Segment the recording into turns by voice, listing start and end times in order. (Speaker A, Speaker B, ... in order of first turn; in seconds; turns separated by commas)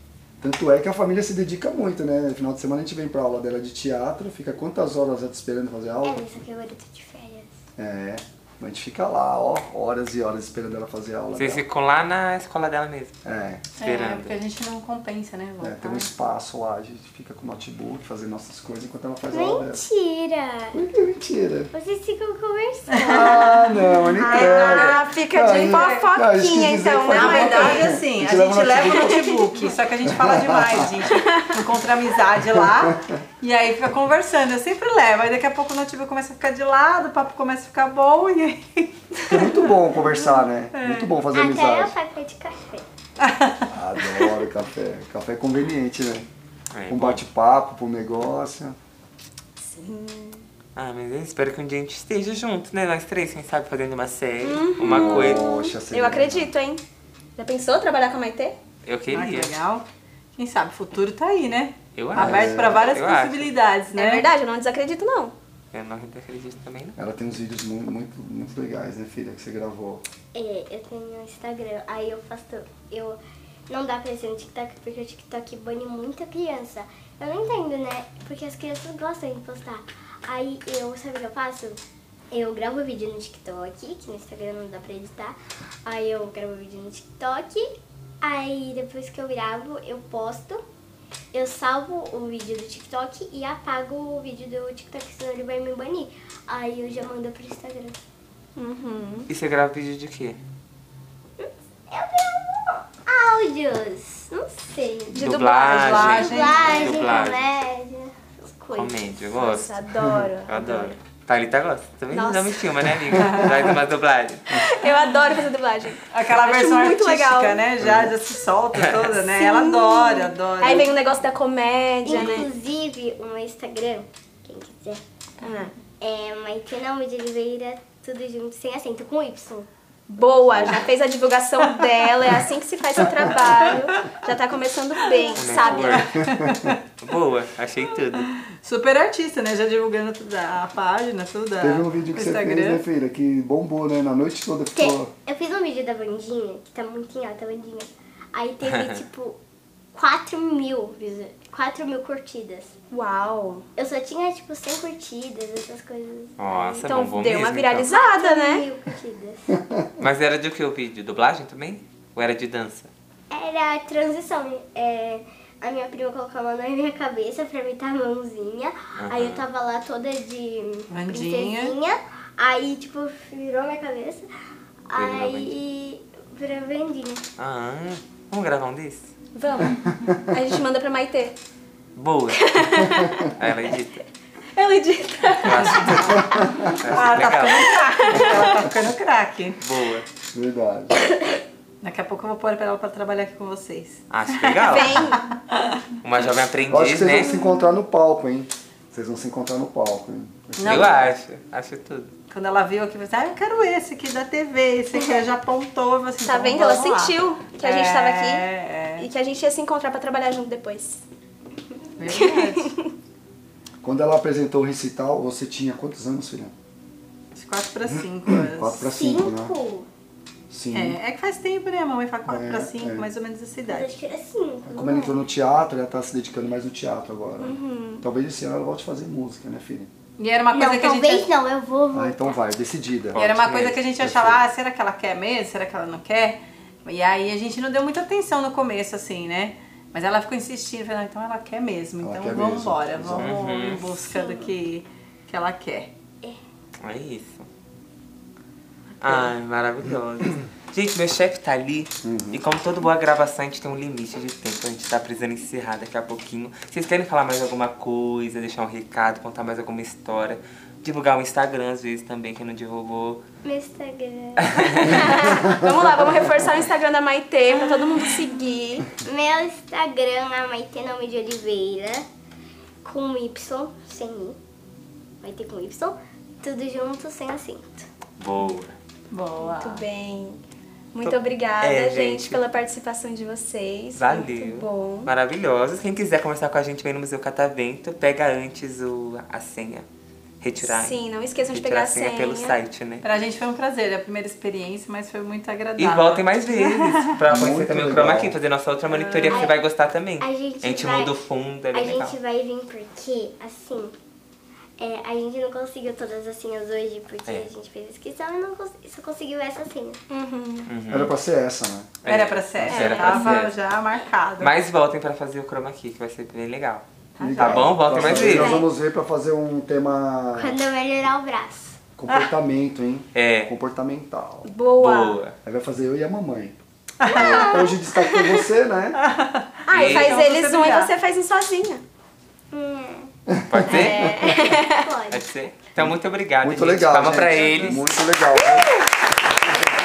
Speaker A: 0.4-6.2, Speaker B: 6.0-7.5, Speaker A: 7.8-11.6, Speaker C: 11.3-13.2, Speaker A: 13.2-13.6, Speaker C: 13.8-14.4, Speaker D: 13.8-16.1, Speaker A: 15.6-19.8, Speaker B: 19.3-20.8, Speaker A: 20.7-21.7, Speaker B: 21.7-23.4, Speaker D: 22.9-23.5, Speaker A: 23.0-29.2, Speaker E: 24.1-27.9, Speaker D: 24.2-25.0, Speaker D: 25.8-26.0, Speaker D: 27.1-39.2, Speaker E: 28.9-29.7, Speaker A: 30.1-30.9, Speaker E: 31.1-31.6, Speaker A: 32.6-33.0, Speaker A: 39.3-42.0, Speaker B: 40.0-40.5, Speaker D: 40.7-41.1, Speaker B: 41.3-42.9, Speaker D: 43.2-43.7, Speaker A: 43.7-46.3, Speaker C: 46.7-47.2, Speaker A: 46.9-48.8, Speaker E: 49.6-50.4, Speaker C: 50.8-55.5, Speaker E: 54.4-56.8, Speaker A: 54.9-56.5, Speaker E: 57.4-58.6, Speaker C: 58.9-59.5, Speaker D: 59.1-64.3, Speaker C: 62.0-63.5, Speaker A: 62.1-63.0, Speaker E: 63.9-65.3, Speaker C: 65.7-67.0, Speaker A: 67.0-70.0, Speaker B: 70.3-87.7, Speaker B: 88.2-90.6, Speaker B: 91.3-98.0, Speaker E: 98.6-99.3, Speaker C: 99.3-100.4, Speaker B: 101.4-105.3, Speaker C: 105.1-107.5, Speaker E: 105.1-106.2, Speaker D: 105.7-107.2, Speaker B: 105.9-109.2, Speaker C: 108.7-109.8, Speaker E: 109.3-111.0, Speaker A: 110.0-110.3, Speaker C: 110.5-114.6, Speaker E: 112.1-112.6, Speaker D: 113.2-113.8, Speaker E: 114.5-117.6, Speaker D: 116.1-120.9, Speaker A: 117.8-118.1, Speaker C: 118.7-119.2, Speaker E: 119.2-122.5, Speaker B: 120.6-120.9, Speaker B: 122.0-125.0, Speaker E: 125.4-125.7, Speaker B: 126.0-129.7, Speaker E: 130.1-136.1, Speaker D: 131.8-132.3, Speaker D: 133.5-134.1, Speaker D: 135.0-136.8, Speaker C: 135.3-136.2, Speaker A: 136.1-136.7, Speaker C: 137.0-138.3, Speaker D: 137.9-142.8, Speaker A: 141.6-145.1, Speaker B: 144.8-149.4, Speaker B: 149.9-152.7, Speaker E: 152.9-153.7, Speaker B: 153.8-156.3, Speaker C: 156.4-157.9, Speaker E: 156.5-158.7, Speaker B: 157.8-159.6, Speaker C: 160.0-162.9, Speaker B: 163.3-174.2, Speaker C: 169.0-169.5, Speaker D: 170.9-171.8, Speaker B: 174.9-177.2, Speaker C: 174.9-175.5, Speaker C: 177.4-179.1, Speaker E: 179.3-181.4, Speaker C: 181.9-182.4, Speaker E: 182.3-183.3, Speaker A: 182.7-183.1, Speaker C: 183.4-184.1, Speaker E: 184.6-186.6, Speaker C: 185.4-186.2, Speaker D: 186.6-189.6, Speaker C: 186.8-187.7, Speaker E: 187.2-188.6, Speaker C: 189.6-190.1, Speaker A: 190.3-191.0, Speaker D: 191.8-195.7, Speaker C: 194.1-195.0, Speaker E: 194.7-195.3, Speaker C: 196.0-197.4, Speaker A: 196.7-201.1, Speaker D: 200.6-201.1, Speaker C: 200.7-202.1, Speaker D: 202.3-209.1, Speaker E: 206.2-211.0, Speaker D: 212.0-212.7, Speaker E: 212.1-212.9, Speaker A: 213.8-216.5, Speaker D: 217.3-218.9, Speaker A: 217.9-219.5, Speaker B: 218.9-219.9, Speaker A: 220.5-221.0, Speaker D: 220.7-224.0, Speaker A: 222.3-223.1, Speaker B: 223.7-225.2, Speaker A: 224.7-229.9, Speaker E: 227.4-228.0, Speaker D: 230.2-231.3, Speaker B: 230.5-232.4, Speaker A: 231.9-233.3, Speaker C: 233.1-233.8, Speaker D: 233.1-245.9, Speaker A: 234.0-234.4, Speaker A: 242.0-243.4, Speaker C: 243.2-243.9, Speaker B: 244.1-244.5, Speaker C: 246.8-247.5, Speaker C: 249.0-263.2, Speaker D: 249.0-249.3, Speaker A: 252.0-252.4, Speaker B: 263.4-265.4, Speaker C: 264.6-265.0, Speaker E: 264.9-268.9, Speaker A: 265.4-266.3, Speaker B: 267.5-268.2, Speaker B: 269.0-272.1, Speaker B: 272.8-274.4, Speaker B: 275.2-277.9, Speaker C: 278.2-278.8, Speaker D: 279.1-279.9, Speaker E: 279.4-280.4, Speaker E: 280.9-285.1, Speaker C: 281.0-282.4, Speaker C: 284.0-289.9, Speaker C: 290.4-293.1, Speaker E: 290.6-292.6, Speaker D: 293.0-297.2, Speaker C: 295.8-302.2, Speaker A: 297.3-298.4, Speaker D: 298.9-299.4, Speaker B: 299.3-299.6, Speaker B: 300.2-303.9, Speaker B: 304.8-310.0, Speaker E: 310.1-310.7, Speaker C: 310.7-311.1, Speaker A: 310.9-312.0, Speaker C: 312.0-313.6, Speaker D: 312.0-314.5, Speaker E: 312.7-313.4, Speaker C: 314.4-316.9, Speaker D: 317.2-318.2, Speaker A: 317.2-320.6, Speaker C: 317.4-318.6, Speaker B: 318.2-318.7, Speaker B: 320.4-321.8, Speaker A: 322.0-324.5, Speaker C: 323.1-323.5, Speaker E: 324.4-325.2, Speaker C: 324.8-325.4, Speaker A: 325.4-326.6, Speaker D: 327.0-327.6, Speaker B: 327.1-327.8, Speaker A: 327.1-329.0, Speaker E: 327.9-328.4, Speaker D: 328.9-330.9, Speaker E: 329.7-331.8, Speaker C: 329.7-330.2, Speaker B: 332.5-333.1, Speaker A: 333.3-334.4, Speaker C: 333.5-334.3, Speaker E: 333.7-334.8, Speaker B: 334.7-335.3, Speaker C: 335.1-338.0, Speaker A: 335.8-338.7, Speaker D: 337.4-337.7, Speaker E: 338.4-338.9